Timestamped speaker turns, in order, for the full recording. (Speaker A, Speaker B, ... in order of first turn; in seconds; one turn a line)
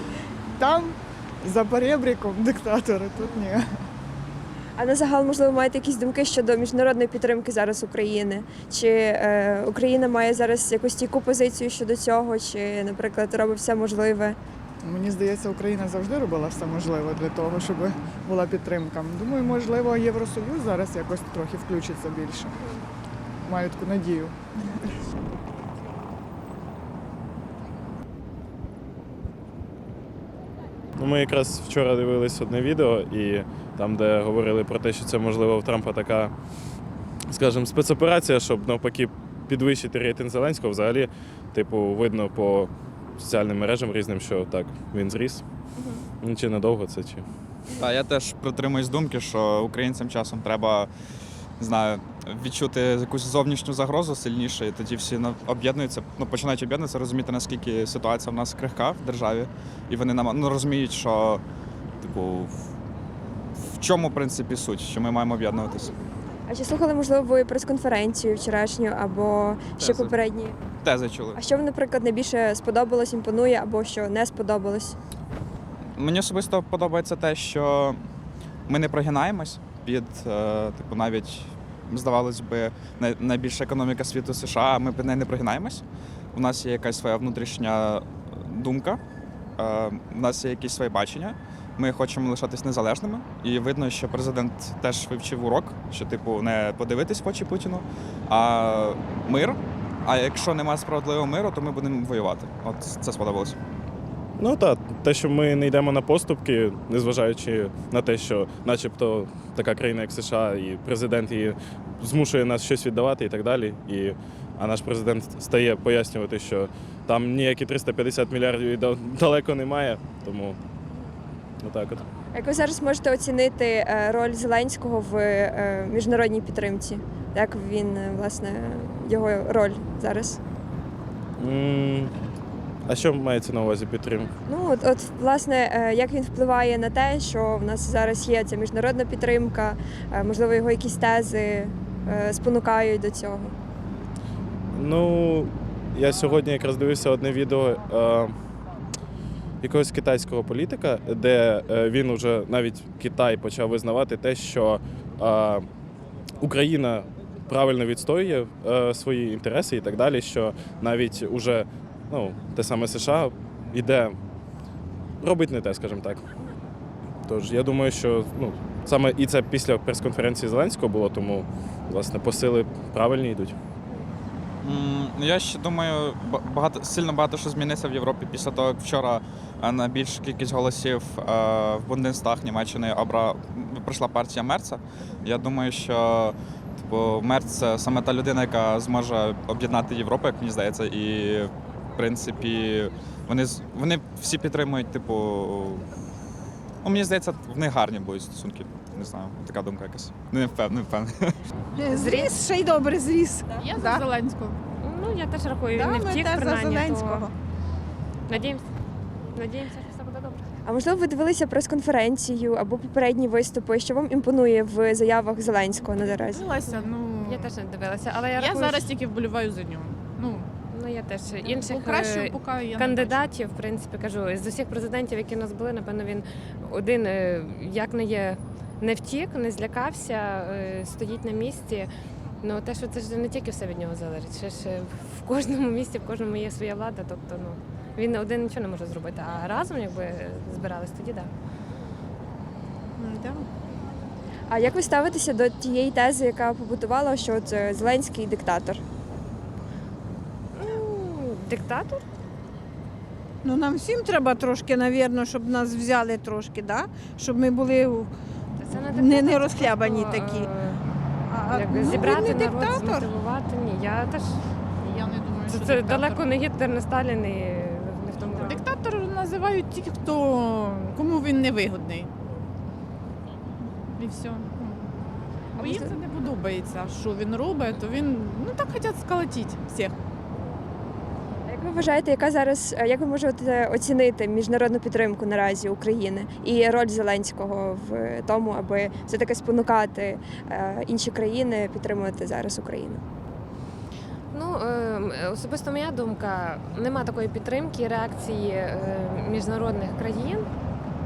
Speaker A: 0.6-3.6
Speaker B: 4.8-14.4
Speaker A: 14.8-22.6
Speaker A: 23.4-24.4
Speaker C: 31.0-36.3
Speaker C: 37.3-45.4
Speaker B: 45.8-46.0
Speaker C: 46.2-47.2
Speaker D: 47.8-50.9
Speaker D: 51.6-61.4
Speaker D: 62.0-62.7
Speaker D: 63.6-65.9
Speaker B: 66.5-70.5
Speaker D: 69.8-70.1
Speaker D: 70.8-71.4
Speaker B: 71.3-75.0
Speaker D: 76.0-78.0
Speaker D: 78.7-89.0
Speaker D: 89.6-103.6
Speaker C: 104.4-120.6
Speaker C: 121.6-122.0
Speaker B: 122.3-130.4
Speaker C: 131.4-132.1
Speaker C: 132.9-134.3
Speaker B: 134.5-143.6
Speaker C: 144.7-148.3
Speaker C: 149.6-155.7
Speaker C: 156.4-164.2
Speaker C: 165.2-166.2
Speaker C: 167.3-173.6
Speaker D: 174.6-195.9
Speaker D: 196.8-201.4
Speaker E: 201.8-204.1
Speaker F: 201.9-202.3
Speaker G: 203.6-204.6
Speaker F: 204.8-207.3
Speaker E: 205.8-207.3
Speaker F: 208.3-208.7
Speaker F: 209.4-210.4
Speaker B: 210.7-216.4
Speaker G: 216.1-217.5
Speaker F: 216.7-218.9
Speaker G: 218.4-220.5
Speaker F: 220.7-231.9
Speaker G: 221.4-223.3
Speaker F: 232.4-241.3
Speaker G: 243.0-243.5
Speaker B: 244.5-248.8
Speaker F: 250.6-252.0
Speaker E: 253.4-258.1
Speaker F: 258.6-260.8
Speaker E: 258.7-260.5
Speaker E: 261.3-263.1
Speaker F: 261.5-268.6
Speaker G: 264.9-266.3
Speaker G: 268.4-272.1
Speaker G: 274.0-274.9
Speaker G: 275.6-279.9
Speaker B: 281.5-293.0
Speaker F: 294.3-300.5